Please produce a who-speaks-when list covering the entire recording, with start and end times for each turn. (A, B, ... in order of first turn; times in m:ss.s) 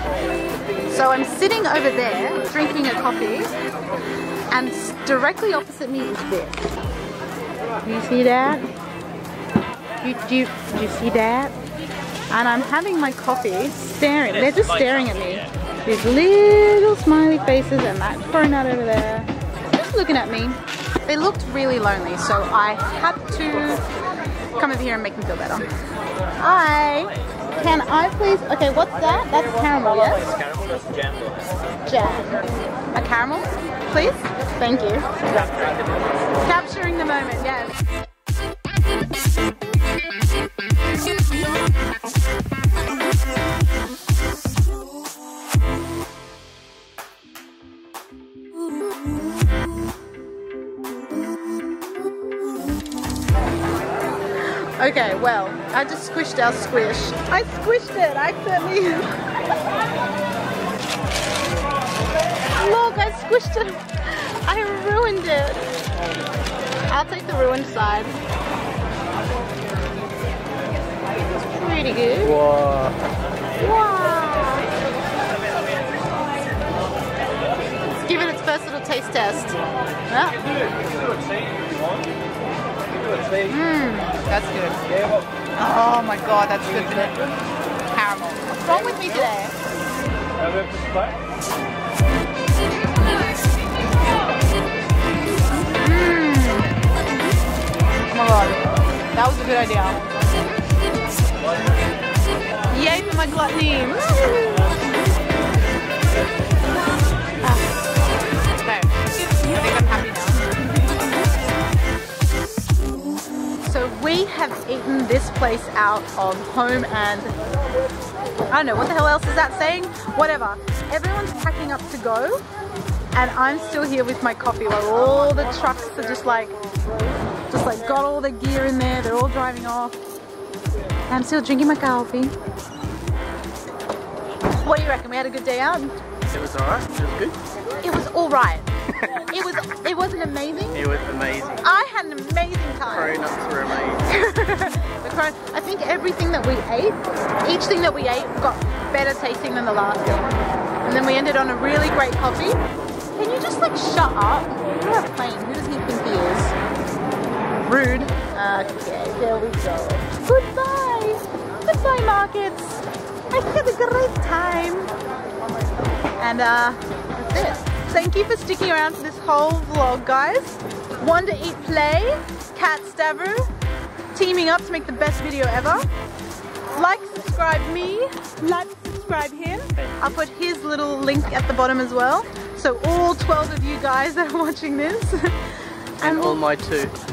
0:00.9-0:03.5 A
0:04.5-0:06.6 A
0:07.8-0:08.7 A
0:10.0-0:11.6 A
0:12.3-0:23.8 A
0:24.5-0:25.8 A
0:26.4-0:30.3 A
0:31.9-0:35.1 A
0:36.4-0:37.8 A
0:54.4-0:59.6 A
1:02.6-1:05.7 A
1:06.9-1:08.2 A
1:11.4-1:12.4 A
1:12.2-1:13.0 B
1:13.6-1:14.7 A
1:18.0-1:19.6 A
1:20.1-1:20.4 A
1:23.5-1:24.9 A
1:25.6-1:27.2 A
1:27.9-1:29.6 A
1:35.8-1:36.7 A
1:38.1-1:40.0 A
1:42.7-1:44.8 A
1:47.4-1:47.7 A
1:48.5-1:50.7 A
1:53.6-1:57.4 A
1:58.5-2:02.4 A
2:03.1-2:06.6 A
2:07.5-2:10.0 A
2:11.1-2:12.3 A
2:14.6-2:16.0 A
2:16.3-2:17.4 B
2:17.8-2:20.8 A
2:20.7-2:21.6 B
2:21.6-2:23.2 A
2:22.9-2:24.0 B
2:23.9-2:30.3 A
2:30.8-2:32.6 A
2:33.2-2:36.6 A
2:37.6-2:44.9 A
2:46.2-2:53.5 A
2:54.1-2:55.9 A
2:56.7-3:06.4 A
3:06.0-3:07.0 B